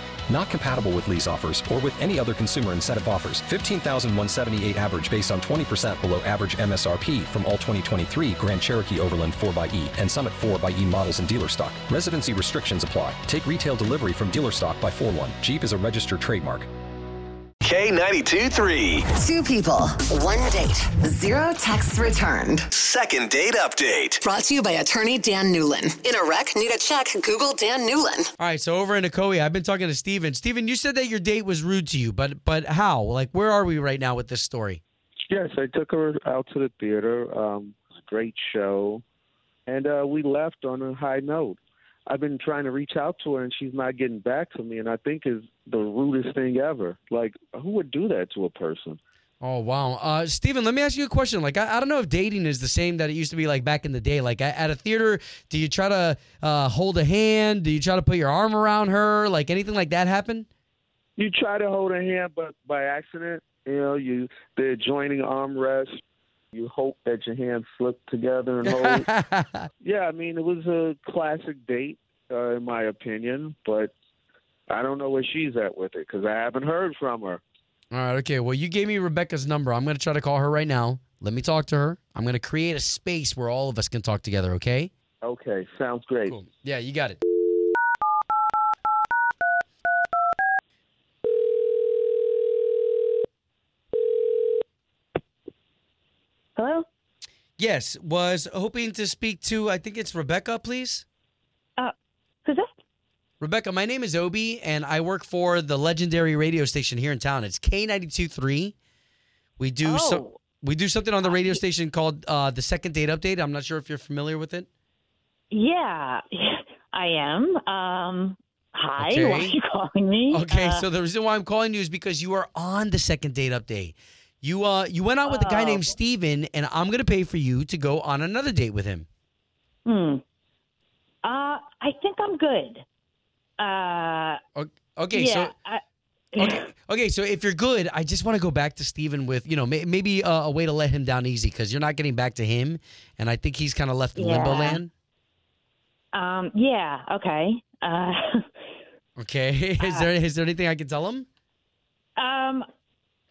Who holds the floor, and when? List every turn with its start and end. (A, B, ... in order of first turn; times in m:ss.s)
0:00.3-0:16.7 A
0:17.6-0:19.1 B
0:19.1-0:22.7 C
0:22.7-0:24.2 B
0:24.2-0:28.3 C
0:28.4-0:34.8 D
0:35.3-0:39.0 E
0:39.6-0:49.0 E
0:49.4-1:00.5 D
1:01.2-1:05.9 E
1:06.5-1:09.1 E
1:08.6-1:09.7 D
1:09.8-1:13.9 E
1:14.7-1:17.4 E
1:17.9-1:24.9 D
1:25.2-1:26.4 E
1:26.2-1:27.2 D
1:36.6-1:36.8 F
1:37.6-1:41.0 D
1:42.4-1:42.7 F
1:43.4-1:48.7 D
1:49.6-1:54.7 D
1:49.8-1:50.4 F
1:51.2-1:51.6 F
1:55.5-2:00.8 F
1:59.0-1:59.6 D
2:00.3-2:09.0 D
2:05.2-2:05.9 F
2:09.8-2:10.2 F
2:11.2-2:12.8 F
2:13.6-2:14.4 F
2:14.5-2:15.5 D
2:15.1-2:15.8 F
2:16.3-2:16.6 F
2:16.4-2:24.9 D
2:24.2-2:24.8 F
2:26.1-2:28.5 F
2:29.2-2:31.2 D
2:29.8-2:30.1 F
2:32.2-2:32.6 F